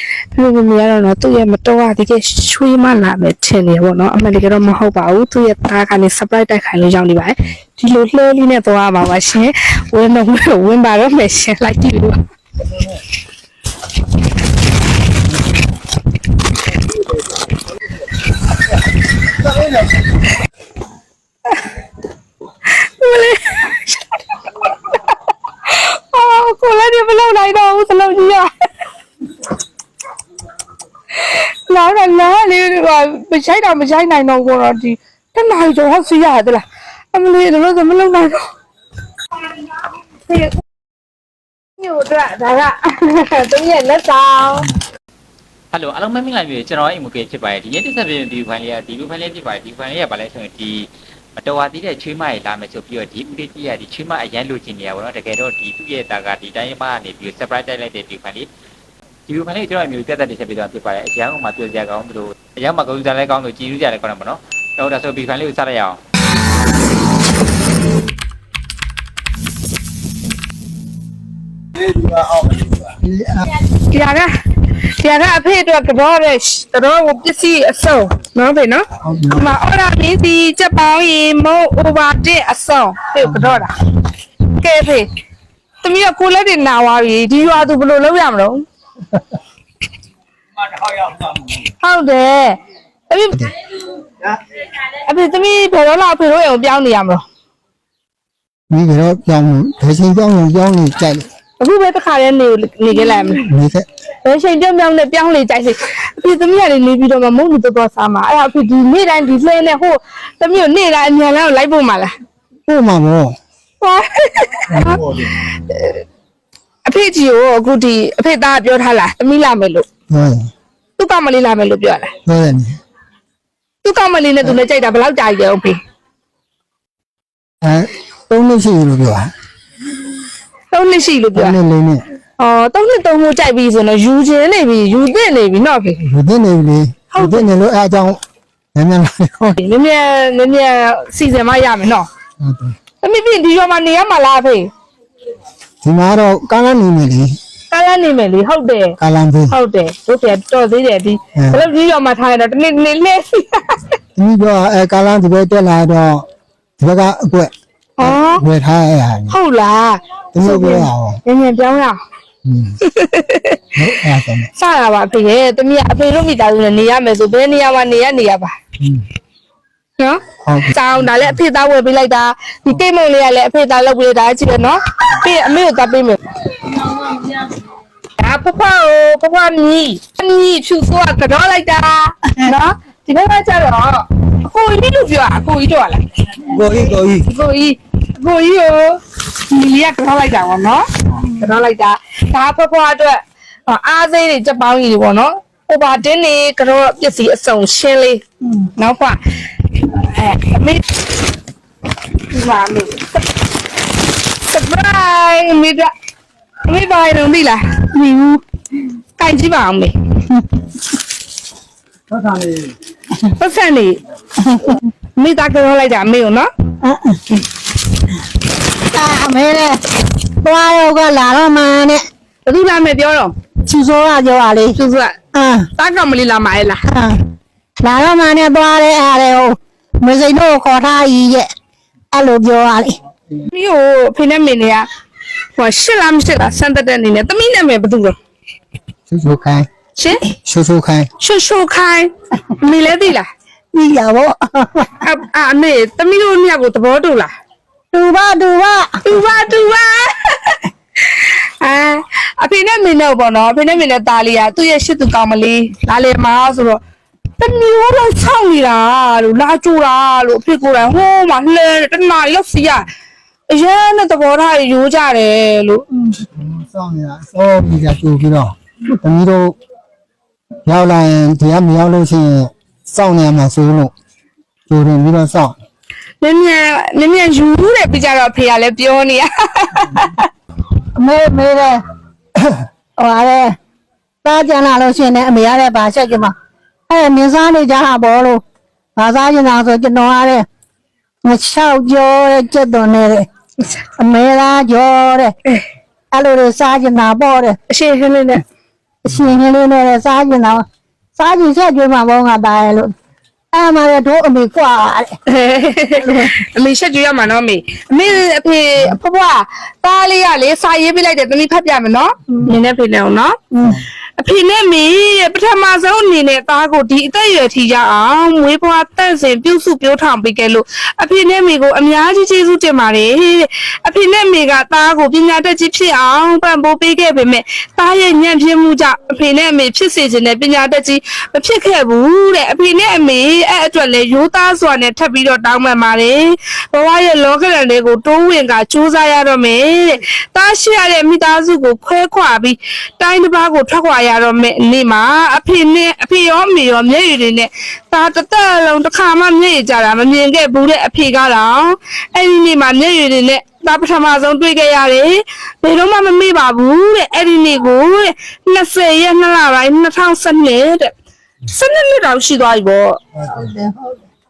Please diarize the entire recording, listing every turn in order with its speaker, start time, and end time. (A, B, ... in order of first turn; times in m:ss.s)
0:00.4-0:12.2 A
0:22.8-0:25.0 A
0:25.6-0:28.5 A
0:31.2-0:36.6 A
0:37.1-0:38.4 A
0:41.8-0:44.7 A
0:45.7-0:58.5 B
0:59.3-1:06.0 B
1:11.9-1:13.4 C
1:13.9-1:14.3 A
1:15.0-1:23.7 A
1:19.0-1:19.4 C
1:23.3-1:23.6 C
1:24.5-1:25.1 A
1:25.8-1:28.6 A
1:31.8-1:32.6 A
1:33.1-1:33.4 A
1:35.0-1:37.2 A
1:38.7-1:41.3 C
1:41.6-1:43.4 A
1:43.4-1:43.8 C
1:44.2-1:52.1 A
1:52.7-1:53.4 C
1:53.8-1:56.0 A
1:56.8-1:59.8 A
2:00.1-2:00.5 C
2:01.0-2:02.1 A
2:02.2-2:02.8 C
2:03.8-2:05.8 A
2:07.6-2:09.3 C
2:10.7-2:11.6 A
2:11.3-2:12.0 C
2:12.4-2:16.0 A
2:16.0-2:18.2 C
2:17.1-2:17.5 A
2:18.7-2:19.6 C
2:19.6-2:22.1 A
2:22.4-2:22.7 C
2:23.0-2:24.7 A
2:25.8-2:27.3 C
2:27.7-2:29.0 A
2:29.0-2:29.5 C
2:29.5-2:33.9 A
2:31.4-2:31.6 C
2:34.2-2:36.2 C
2:36.8-2:39.3 C
2:38.0-2:38.4 A
2:39.3-2:42.0 A
2:40.3-2:41.2 C
2:42.4-2:42.8 C
2:42.8-2:43.6 A
2:43.7-2:44.5 C
2:44.6-2:48.5 A
2:50.0-2:57.2 A
2:50.4-2:51.4 C
2:58.2-3:06.0 A
3:06.6-3:18.2 A
3:18.8-3:19.2 A
3:19.7-3:20.8 A
3:22.3-3:23.2 A
3:24.4-3:25.9 A
3:26.7-3:27.6 A
3:27.9-3:28.4 D
3:29.2-3:29.9 A
3:33.4-3:34.0 A
3:35.2-3:36.5 A
3:36.8-3:37.2 D
3:38.9-3:39.8 D
3:40.4-3:42.0 D
3:42.4-3:43.3 A
3:43.6-3:44.8 D
3:44.8-3:45.1 A
3:45.3-3:45.7 D
3:45.8-3:46.8 A
3:46.9-3:47.2 D
3:47.8-3:51.5 D
3:52.1-3:53.0 D
3:53.5-3:54.8 A
3:55.6-3:58.2 A
3:59.1-3:59.7 C
4:00.0-4:00.2 A
4:00.4-4:01.1 C
4:01.2-4:02.1 A
4:02.6-4:03.3 A
4:03.7-4:04.9 D
4:05.0-4:07.3 A
4:07.9-4:08.9 D
4:09.0-4:16.8 A
4:17.4-4:22.9 A
4:23.5-4:25.8 A
4:26.3-4:29.6 C
4:30.6-4:33.9 C
4:34.7-4:35.5 C
4:36.2-4:40.3 A
4:41.0-4:41.8 D
4:43.0-4:43.5 D
4:44.2-4:46.3 D
4:46.9-4:48.4 D
4:49.0-4:50.5 D
4:51.2-4:53.3 D
4:54.0-4:55.3 D
4:56.1-4:57.6 D
4:57.7-4:58.4 A
4:59.0-5:00.6 D
5:01.2-5:02.9 D
5:03.5-5:05.1 D
5:05.3-5:13.4 A
5:14.2-6:00.9 A
6:01.5-6:03.0 A